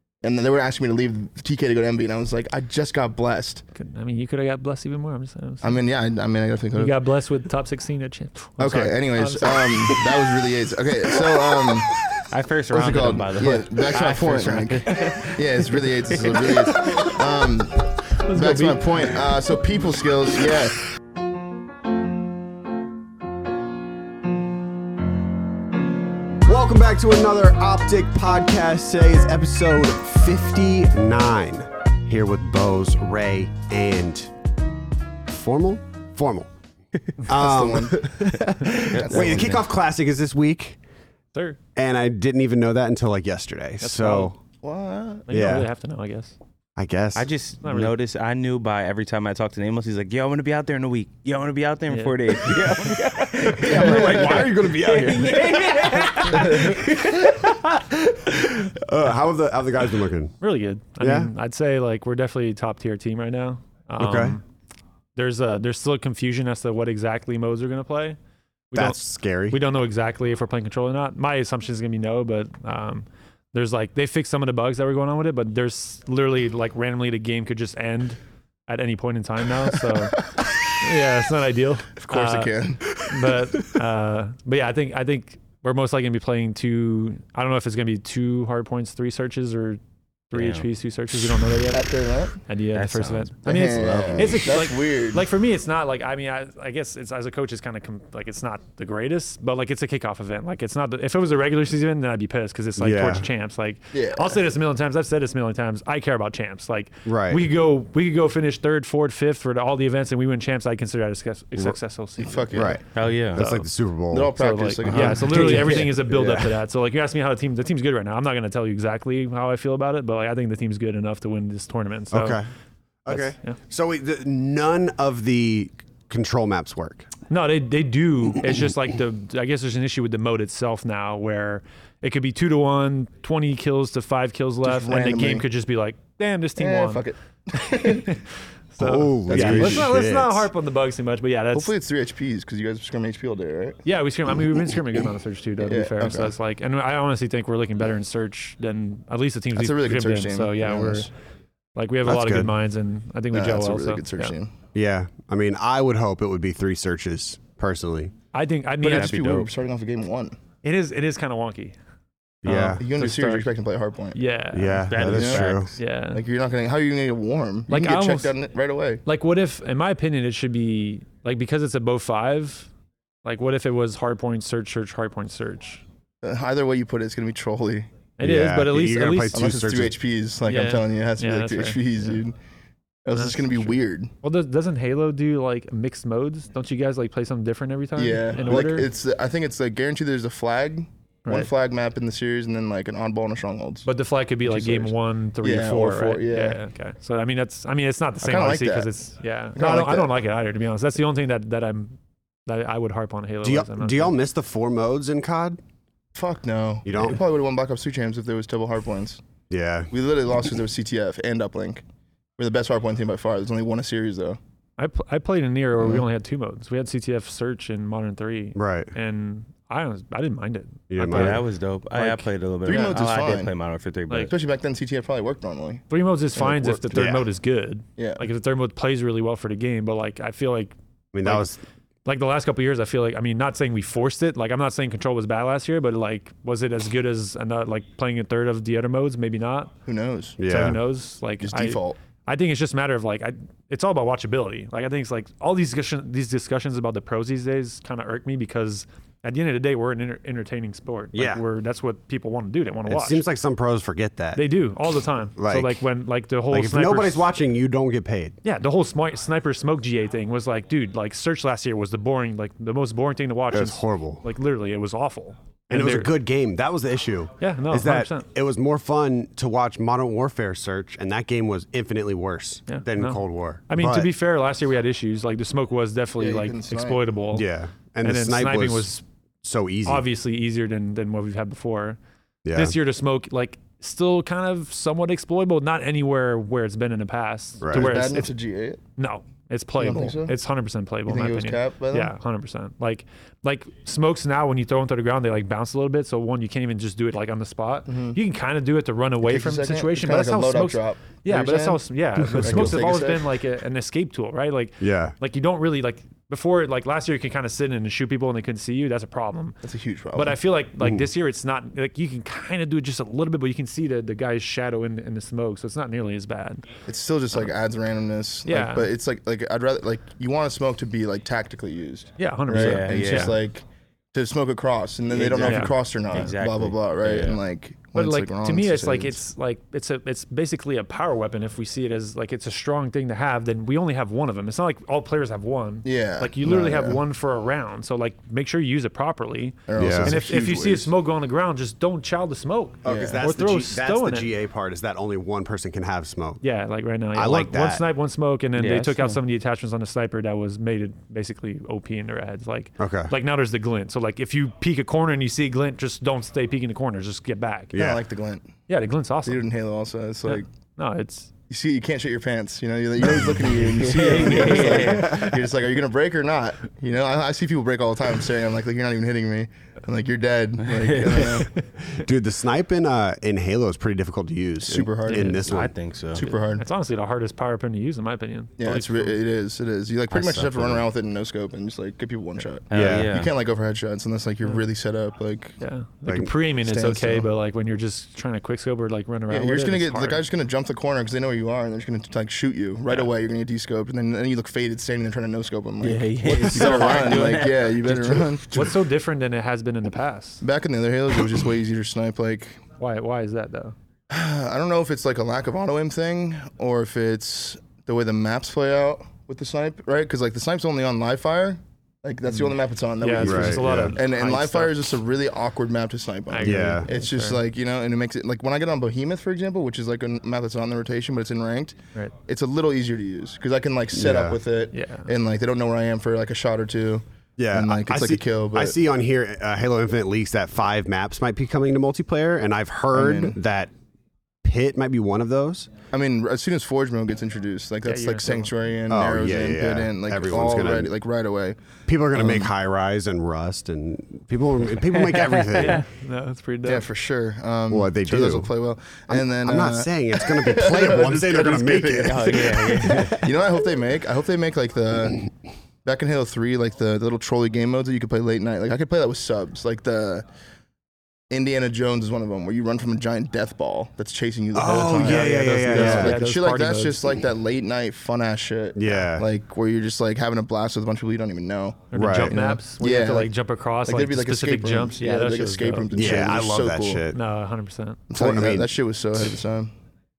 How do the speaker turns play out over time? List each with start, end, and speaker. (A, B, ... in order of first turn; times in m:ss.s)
0:00.2-0:03.6 A
0:03.7-0:05.8 B
0:05.6-0:07.0 A
0:06.8-0:10.1 B
0:08.6-0:12.0 A
0:12.2-0:17.1 C
0:12.7-0:20.8 A
0:18.2-0:19.2 B
0:26.4-0:34.3 D
0:35.3-0:36.5 D
0:37.2-0:40.8 D
0:37.3-0:39.6 A
0:38.9-0:39.4 C
0:41.3-0:41.6 B
0:41.8-0:44.4 D
0:43.8-0:44.3 B
0:44.6-0:45.4 A
0:45.3-0:46.3 B
0:45.3-0:45.7 D
0:46.8-0:47.3 D
0:47.2-0:57.6 C
0:47.6-0:47.9 B
0:51.9-0:52.6 B
0:53.4-0:57.0 D
0:53.6-0:54.5 A
0:56.3-0:56.7 A
0:57.9-1:00.4 D
1:00.4-1:04.4 B
1:01.0-1:01.3 D
1:04.0-1:04.4 D
1:05.2-1:08.2 B
1:08.7-1:20.2 B
1:08.7-1:09.6 D
1:20.8-1:31.9 B
1:22.0-1:22.9 A
1:30.3-1:30.7 C
1:31.7-1:32.4 A
1:32.4-1:52.8 B
1:32.7-1:33.3 C
1:33.4-1:35.2 A
1:33.8-1:34.4 D
1:42.8-1:43.3 D
1:43.9-1:44.4 A
1:47.0-1:47.4 D
1:52.2-1:52.8 A
1:52.5-1:56.6 D
1:52.9-1:53.4 C
1:53.4-1:53.7 B
1:54.1-1:55.9 A
1:54.4-2:02.4 B
2:02.1-2:02.5 D
2:03.0-2:07.1 D
2:03.1-2:03.6 B
2:07.3-2:17.0 B
2:14.6-2:15.4 A
2:16.6-2:18.2 A
2:17.7-2:18.2 B
2:18.7-2:21.7 B
2:18.8-2:20.5 D
2:19.3-2:19.9 A
2:21.5-2:23.8 A
2:23.8-2:31.1 B
2:25.6-2:26.3 A
2:29.5-2:31.1 A
2:31.7-2:34.4 B
2:32.0-2:32.5 D
2:33.3-2:34.5 A
2:34.7-2:38.1 D
2:38.3-2:39.5 B
2:38.8-2:40.4 A
2:38.9-2:39.4 C
2:40.6-2:41.8 B
2:42.4-2:42.8 D
2:42.4-2:43.4 B
2:42.7-2:44.2 A
2:44.1-2:45.1 B
2:44.5-2:45.7 D
2:44.9-2:45.7 C
2:45.1-2:45.4 A
2:45.8-2:46.2 B
2:46.1-2:49.0 A
2:47.7-2:48.3 B
2:49.0-2:52.7 B
2:53.2-2:55.8 B
2:56.2-2:57.9 A
2:58.2-2:59.4 B
2:58.2-2:59.9 D
2:59.3-3:02.3 A
3:00.5-3:02.2 B
3:03.0-3:04.1 A
3:03.1-3:08.9 B
3:08.0-3:13.9 A
3:11.2-3:11.5 B
3:13.8-3:24.1 B
3:14.4-3:16.6 A
3:18.2-3:18.9 A
3:19.6-3:20.1 A
3:23.4-3:25.6 D
3:26.1-3:29.2 A
3:26.8-3:27.2 D
3:29.5-3:29.9 D
3:29.9-3:31.8 A
3:32.4-3:34.4 A
3:34.8-3:42.3 B
3:38.5-3:38.9 D
3:40.9-3:41.4 D
3:41.0-3:44.3 C
3:42.6-3:43.5 A
3:44.3-3:46.8 A
3:45.9-3:51.5 B
3:46.9-3:47.2 D
3:48.0-3:48.2 A
3:51.1-3:51.6 D
3:52.0-3:59.7 B
3:59.8-4:00.4 A
4:00.4-4:00.8 D
4:00.4-4:13.2 B
4:01.4-4:02.0 A
4:11.1-4:11.4 D
4:12.8-4:14.4 D
4:14.3-4:17.3 B
4:15.4-4:15.8 D
4:16.5-4:18.4 D
4:18.4-4:26.1 B
4:23.5-4:24.2 D
4:25.7-4:34.1 D
4:27.4-4:28.2 B
4:32.7-4:37.4 B
4:36.2-4:37.0 A
4:37.3-4:38.9 D
4:38.0-4:39.0 B
4:39.4-4:40.0 D
4:39.8-4:42.0 B
4:42.4-4:42.7 D
4:42.5-4:48.3 B
4:47.6-4:48.0 D
4:47.7-4:48.8 A
4:49.0-5:09.6 B
4:49.8-4:50.3 A
4:51.1-4:52.1 A
4:57.9-4:58.2 A
4:59.2-5:01.8 A
5:02.2-5:02.8 D
5:02.4-5:03.2 A
5:04.8-5:05.2 D
5:09.6-5:10.4 A
5:10.1-5:16.6 B
5:10.8-5:11.0 D
5:16.9-5:29.2 A
5:18.4-5:18.9 B
5:22.2-5:23.3 B
5:22.5-5:23.4 C
5:25.1-5:27.4 C
5:25.4-5:26.3 B
5:27.9-5:44.3 B
5:35.8-5:37.0 A
5:39.7-5:40.9 A
5:39.8-5:40.2 D
5:42.8-5:46.4 D
5:42.8-5:43.2 A
5:46.4-5:57.8 B
5:47.1-5:47.8 D
5:48.6-5:49.2 C
5:52.8-5:53.1 D
5:57.7-5:58.0 D
5:57.7-5:58.4 A
5:58.7-5:59.4 B
5:59.2-6:00.5 A
6:00.2-6:01.3 B
6:01.5-6:11.5 A
6:03.6-6:05.3 C
6:04.3-6:04.8 B
6:10.6-6:11.4 C
6:11.8-6:15.7 D
6:14.6-6:15.4 A
6:15.1-6:15.4 B
6:15.3-6:16.3 C
6:16.1-6:16.6 A
6:16.2-6:19.2 B
6:18.6-6:25.6 A
6:20.1-6:20.9 C
6:22.7-6:23.3 C
6:22.7-6:23.1 D
6:25.6-6:30.2 B
6:26.0-6:26.3 D
6:26.6-6:27.3 A
6:29.3-6:38.7 A
6:35.8-6:38.2 C
6:36.7-6:37.1 B
6:38.4-6:40.4 B
6:40.4-6:42.6 A
6:42.8-6:43.7 B
6:44.1-7:08.8 A
6:52.3-6:54.9 B
6:53.2-6:53.9 D
6:56.3-6:57.4 B
6:56.4-6:56.9 D
7:03.9-7:04.4 D
7:04.7-7:05.1 B
7:07.4-7:13.7 D
7:12.9-7:13.3 A
7:14.4-7:15.7 D
7:15.9-7:22.5 A
7:17.8-7:18.5 B
7:18.9-7:20.9 D
7:21.8-7:25.8 D
7:25.0-7:25.8 C
7:25.5-7:26.8 B
7:26.6-7:35.3 A
7:27.7-7:28.5 D
7:29.1-7:32.9 D
7:32.0-7:33.3 C
7:35.8-7:40.2 A
7:41.3-7:53.3 A
7:44.5-7:46.2 D
7:44.6-7:47.0 B
7:48.8-7:49.2 D
7:51.9-7:55.9 B
7:51.9-7:52.4 D
7:53.8-7:57.0 A
7:55.9-7:57.2 D
7:57.1-7:58.0 B
7:58.1-7:59.7 A
7:58.1-7:58.8 D